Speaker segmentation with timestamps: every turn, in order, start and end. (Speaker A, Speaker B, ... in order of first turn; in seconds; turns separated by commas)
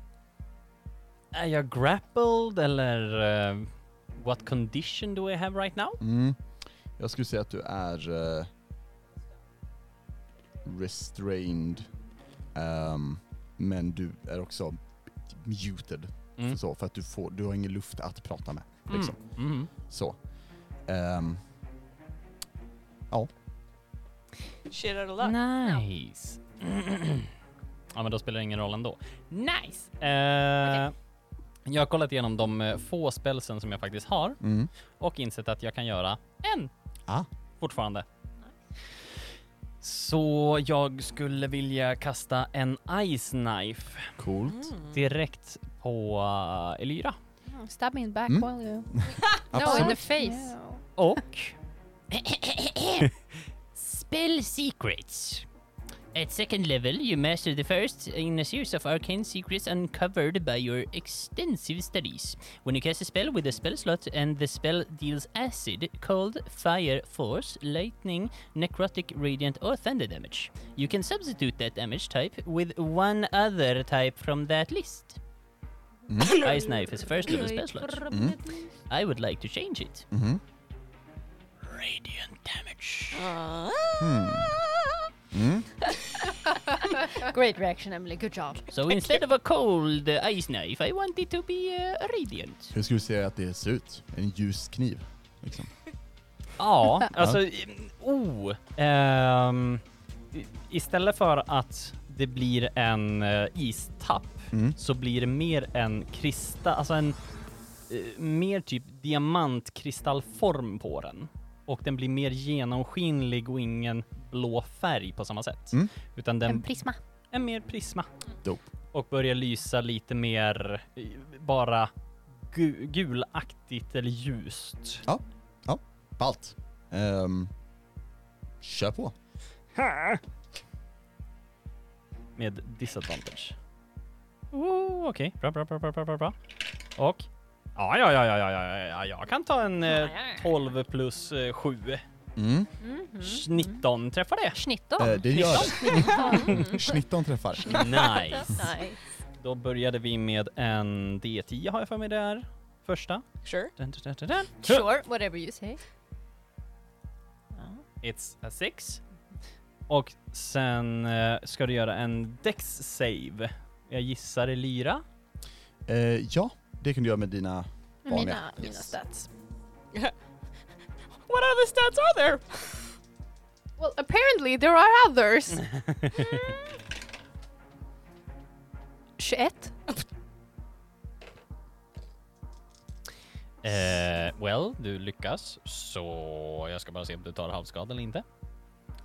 Speaker A: 1.3-6.0, Speaker B: 6.0-6.4, Speaker B: 7.0-8.5, Speaker B: 10.6-11.9, Speaker B: 12.5-19.2, Speaker A: 18.9-19.7, Speaker B: 19.7-20.2, Speaker B: 20.9-21.4, Speaker C: 24.7-25.4, Speaker A: 25.2-27.3, Speaker A: 27.9-30.9, Speaker A: 31.6-34.4, Speaker B: 34.4-34.7, Speaker A: 35.0-36.7, Speaker A: 37.6-38.0, Speaker A: 39.8-44.1, Speaker B: 44.2-44.7, Speaker A: 44.9-47.2, Speaker D: 47.5-49.0, Speaker B: 48.3-50.0, Speaker D: 49.5-50.8, Speaker E: 49.5-50.5, Speaker A: 51.0-51.5, Speaker A: 52.1-53.1, Speaker A: 53.7-55.5, Speaker A: 56.1-75.2, Speaker B: 76.1-76.4, Speaker A: 76.2-78.2, Speaker C: 76.3-76.6, Speaker E: 77.1-78.5, Speaker B: 78.1-78.4, Speaker A: 78.9-80.0, Speaker B: 80.1-80.4, Speaker A: 81.7-83.2, Speaker C: 83.1-85.0, Speaker B: 84.0-84.6, Speaker B: 85.3-85.7, Speaker E: 86.5-88.7, Speaker A: 88.7-92.7, Speaker B: 92.7-95.7, Speaker A: 96.6-107.2, Speaker B: 97.1-97.4, Speaker B: 104.5-104.8, Speaker A: 107.9-118.1, Speaker D: 116.4-117.0, Speaker A: 118.9-121.9, Speaker A: 122.5-125.0, Speaker B: 125.0-127.5, Speaker B: 128.6-129.1, Speaker A: 129.8-130.2, Speaker A: 132.4-133.6, Speaker A: 134.5-136.3, Speaker A: 136.9-142.0, Speaker E: 139.9-140.4, Speaker B: 142.3-142.7, Speaker E: 142.8-143.8, Speaker A: 143.2-144.6, Speaker E: 144.5-146.9, Speaker B: 145.0-148.0, Speaker A: 145.3-146.7, Speaker C: 145.9-146.4, Speaker A: 147.7-148.7, Speaker C: 147.8-148.2, Speaker E: 148.3-149.0, Speaker A: 149.4-153.2, Speaker C: 153.4-153.7, Speaker A: 153.8-154.8, Speaker E: 154.6-155.8, Speaker E: 157.5-157.8, Speaker A: 158.0-159.0, Speaker A: 159.9-165.0, Speaker B: 165.9-168.9, Speaker D: 168.1-169.3, Speaker C: 171.2-172.9, Speaker D: 173.8-176.4, Speaker A: 176.0-176.3, Speaker D: 179.2-179.7, Speaker A: 183.6-188.2